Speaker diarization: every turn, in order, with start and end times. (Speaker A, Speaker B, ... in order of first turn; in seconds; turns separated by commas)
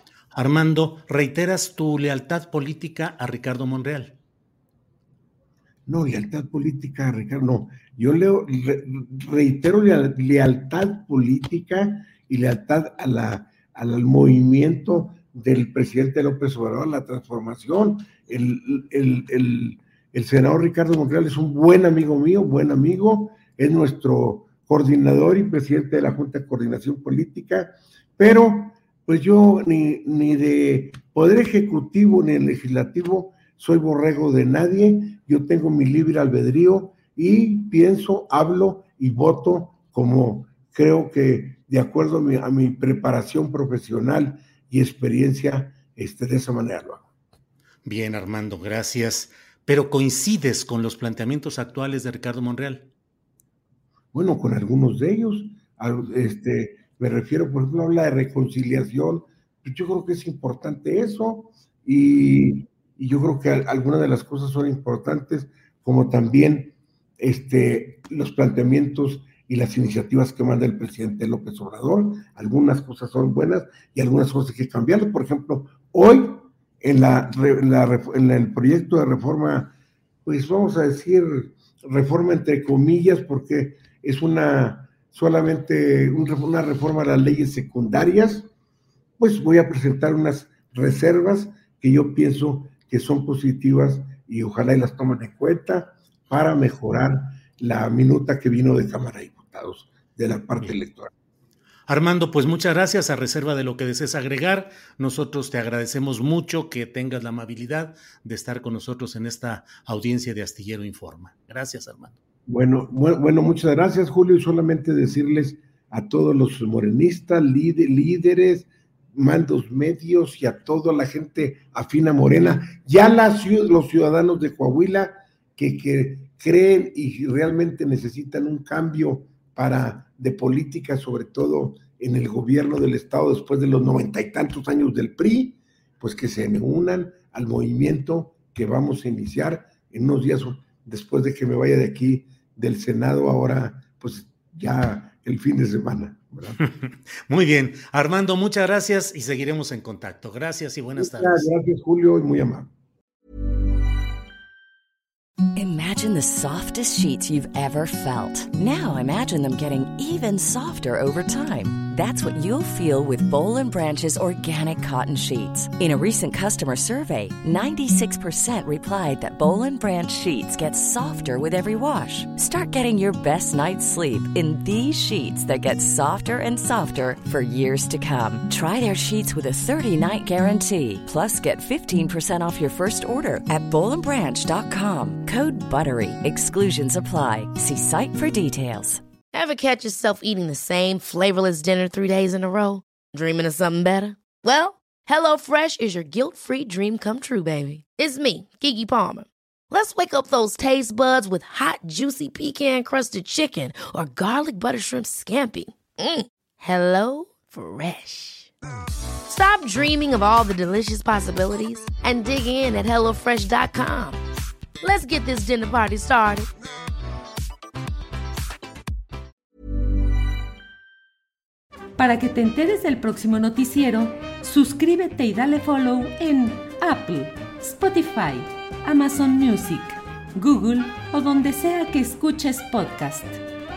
Speaker A: 0.3-4.2, Speaker B: 5.8-47.0, Speaker A: 47.8-52.9, Speaker B: 54.1-88.5, Speaker B: 89.2-101.1, Speaker A: 101.9-112.2, Speaker B: 112.5-146.6, Speaker A: 146.6-151.5, Speaker B: 151.0-152.7, Speaker C: 155.6-189.0, Speaker D: 189.3-208.5, Speaker D: 209.3-213.8, Speaker E: 211.9-214.2, Speaker D: 214.8-216.2, Speaker E: 215.1-216.5, Speaker E: 222.0-233.4